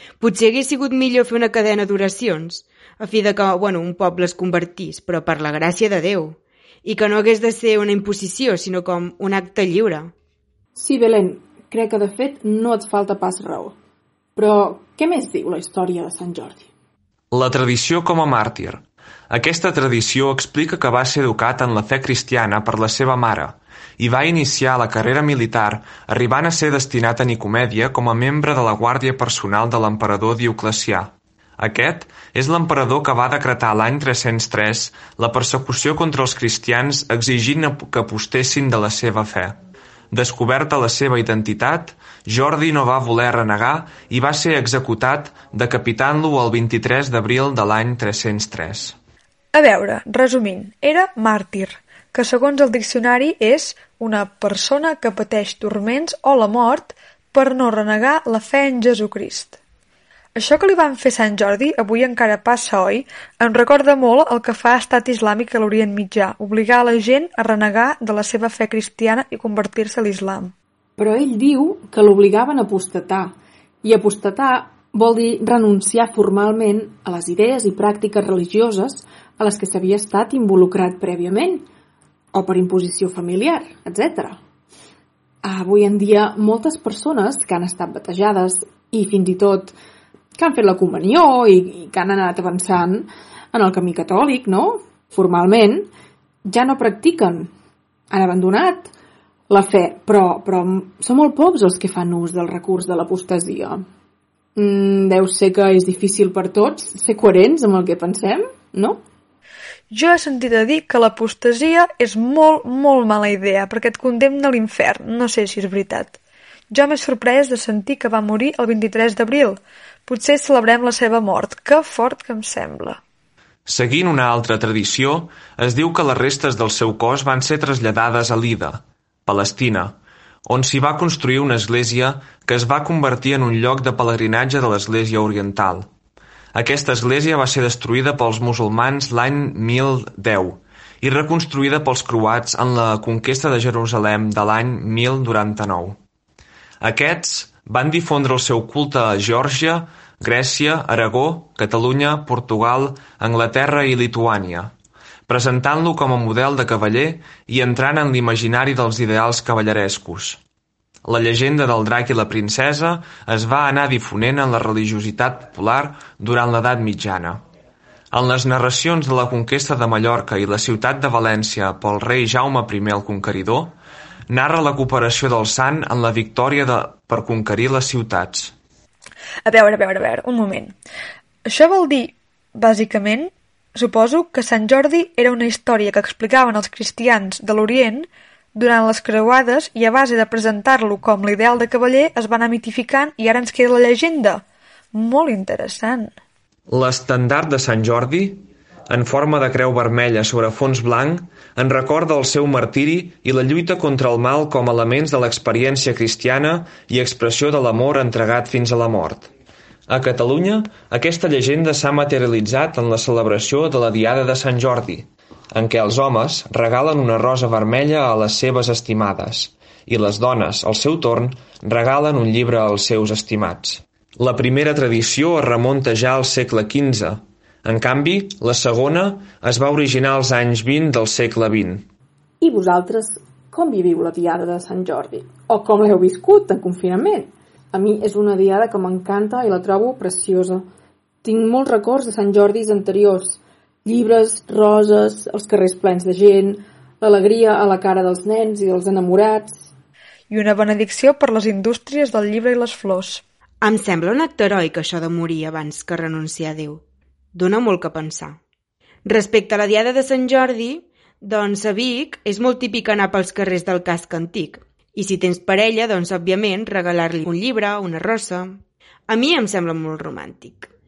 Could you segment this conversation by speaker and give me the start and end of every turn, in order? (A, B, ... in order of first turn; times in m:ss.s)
0:00.2-0:10.1 A
0:10.8-0:13.8 B
0:14.4-0:16.7 B
0:17.3-0:39.6 C
0:40.1-0:49.0 C
0:49.5-0:59.6 D
1:00.4-1:10.5 D
1:11.0-1:21.7 B
1:22.3-1:24.4 B
1:25.4-1:29.8 B
1:30.4-1:35.9 B
1:36.5-1:37.5 B
1:38.1-1:38.9 B
1:39.5-1:43.8 B
1:44.6-1:49.0 B
1:49.9-1:56.2 D
1:56.7-2:03.0 D
2:03.7-2:15.9 C
2:16.5-2:26.0 C
2:26.8-2:34.7 C
2:35.3-2:40.4 C
2:41.0-2:47.4 C
2:48.1-2:53.8 C
2:54.3-2:58.5 C
2:59.5-3:00.7 D
3:01.5-3:14.4 D
3:14.9-3:16.1 D
3:16.7-3:29.3 C
3:29.9-3:51.9 C
3:52.4-4:00.7 B
4:01.2-4:09.7 B
4:10.3-4:13.2 D
4:13.6-4:16.8 A
4:17.3-4:18.4 A
4:19.0-4:30.7 A